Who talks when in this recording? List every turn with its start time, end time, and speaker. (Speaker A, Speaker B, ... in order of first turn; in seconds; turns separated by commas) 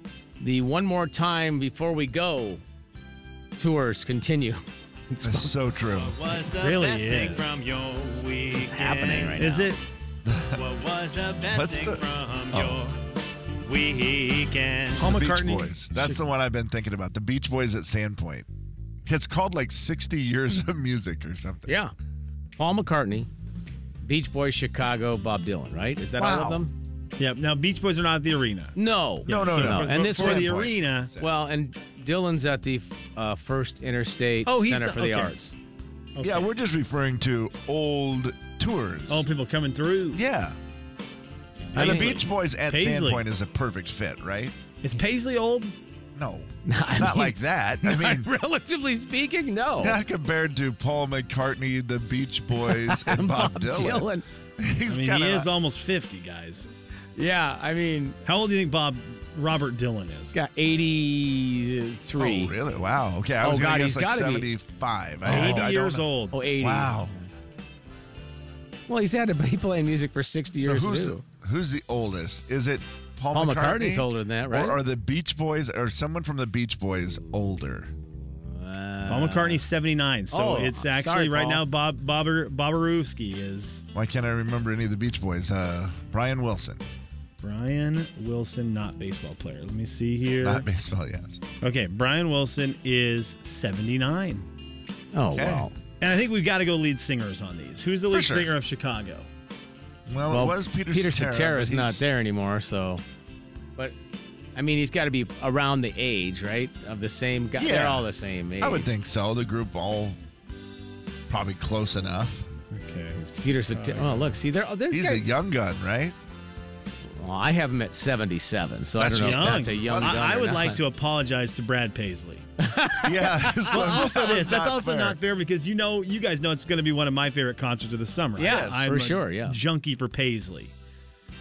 Speaker A: 0.4-2.6, Speaker A: 3.6-5.6, Speaker B: 5.2-6.2, Speaker C: 5.9-9.4, Speaker D: 6.6-7.5, Speaker A: 8.6-9.8, Speaker D: 9.3-9.8, Speaker B: 10.2-10.6, Speaker C: 10.5-12.9, Speaker B: 11.5-12.8, Speaker C: 13.6-15.1, Speaker D: 15.0-16.2, Speaker B: 15.0-18.5, Speaker B: 19.0-21.7, Speaker A: 21.6-21.9, Speaker A: 22.6-23.3, Speaker A: 24.0-26.7, Speaker B: 26.2-26.6, Speaker D: 27.2-31.1, Speaker A: 28.8-30.6, Speaker B: 29.2-31.3, Speaker A: 31.2-35.4, Speaker D: 34.4-35.5, Speaker D: 36.1-36.4, Speaker B: 36.2-39.3, Speaker D: 39.1-40.2, Speaker B: 40.1-40.6, Speaker A: 41.7-42.2, Speaker B: 41.7-44.5, Speaker D: 41.7-43.2, Speaker D: 44.8-45.7, Speaker B: 46.1-48.3, Speaker A: 46.6-50.0, Speaker B: 49.8-55.5, Speaker A: 52.6-54.2, Speaker D: 54.9-56.7, Speaker A: 57.1-58.2, Speaker D: 58.2-60.4, Speaker A: 60.3-62.5, Speaker B: 62.2-66.0, Speaker A: 63.4-64.5, Speaker A: 65.2-65.8, Speaker D: 65.2-66.4, Speaker A: 66.3-67.2, Speaker B: 66.6-67.1, Speaker A: 68.9-71.2, Speaker B: 70.6-77.9, Speaker A: 73.3-74.8, Speaker A: 78.4-79.6, Speaker D: 79.1-83.8, Speaker A: 80.3-81.6, Speaker B: 83.9-86.8, Speaker D: 87.4-90.6, Speaker B: 90.4-91.4, Speaker D: 91.6-94.5, Speaker A: 95.1-95.7, Speaker B: 95.3-95.7, Speaker D: 96.0-99.3, Speaker B: 98.1-98.5, Speaker B: 100.1-102.0, Speaker A: 100.3-103.0, Speaker A: 104.5-108.9, Speaker B: 107.6-108.1, Speaker B: 108.6-110.2, Speaker B: 111.3-112.5, Speaker D: 112.7-113.2, Speaker A: 113.2-115.3, Speaker D: 113.7-114.3, Speaker B: 114.9-116.2, Speaker A: 117.2-120.8, Speaker B: 118.9-120.8, Speaker D: 119.2-122.5, Speaker A: 122.6-124.0, Speaker B: 123.0-125.2, Speaker D: 123.7-130.7, Speaker A: 128.3-129.6, Speaker B: 128.4-128.8